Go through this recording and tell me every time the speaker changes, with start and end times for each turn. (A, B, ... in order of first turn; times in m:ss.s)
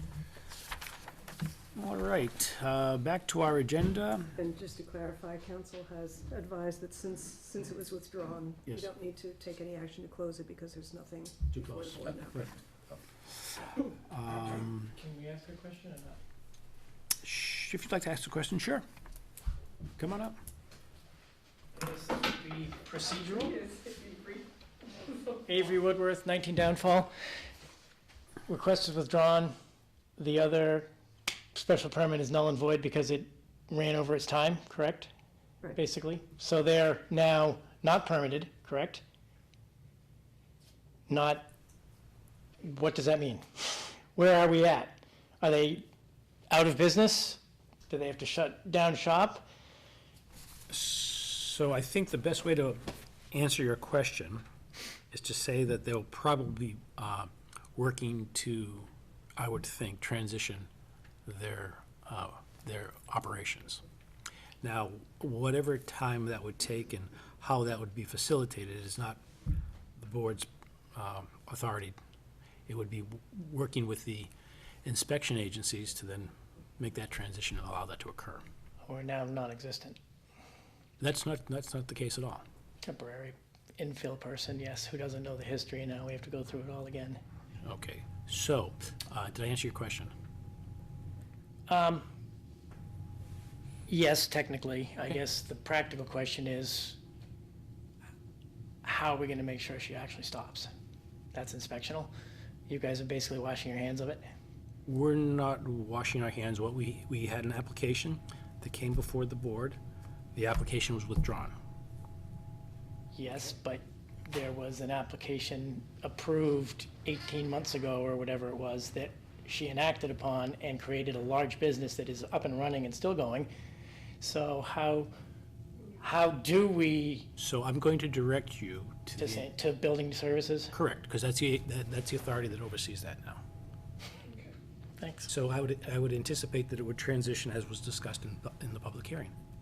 0:01.8-0:04.3 A
0:04.4-0:12.5 B
0:11.5-0:12.5 A
0:14.1-0:14.9 A
0:14.4-0:16.2 C
0:17.2-0:18.8 A
0:20.0-0:20.4 A
0:21.8-0:23.9 C
0:25.3-0:27.1 C
0:28.5-0:29.5 C
0:30.2-0:30.9 C
0:31.5-0:35.1 C
0:35.8-0:39.0 C
0:41.1-0:41.5 C
0:42.6-0:45.9 C
0:46.5-0:49.4 C
0:50.7-0:54.4 A
0:55.1-1:00.7 A
1:01.3-1:03.8 A
1:04.6-1:09.2 A
1:10.0-1:12.0 A
1:12.7-1:14.3 A
1:14.8-1:18.4 A
1:18.8-1:20.0 C
1:21.0-1:22.4 A
1:22.8-1:27.2 C
1:27.6-1:30.1 A
1:31.7-1:32.1 C
1:33.9-1:37.0 C
1:38.8-1:40.7 C
1:41.3-1:42.1 C
1:42.7-1:44.3 C
1:44.9-1:49.8 A
1:50.4-1:51.6 A
1:53.1-2:03.5 C
2:04.2-2:05.1 C
2:06.0-2:07.3 C
2:07.4-2:09.4 A
2:09.2-2:10.7 C
2:10.7-2:13.4 A
2:15.0-2:15.3 C
2:15.3-2:19.4 A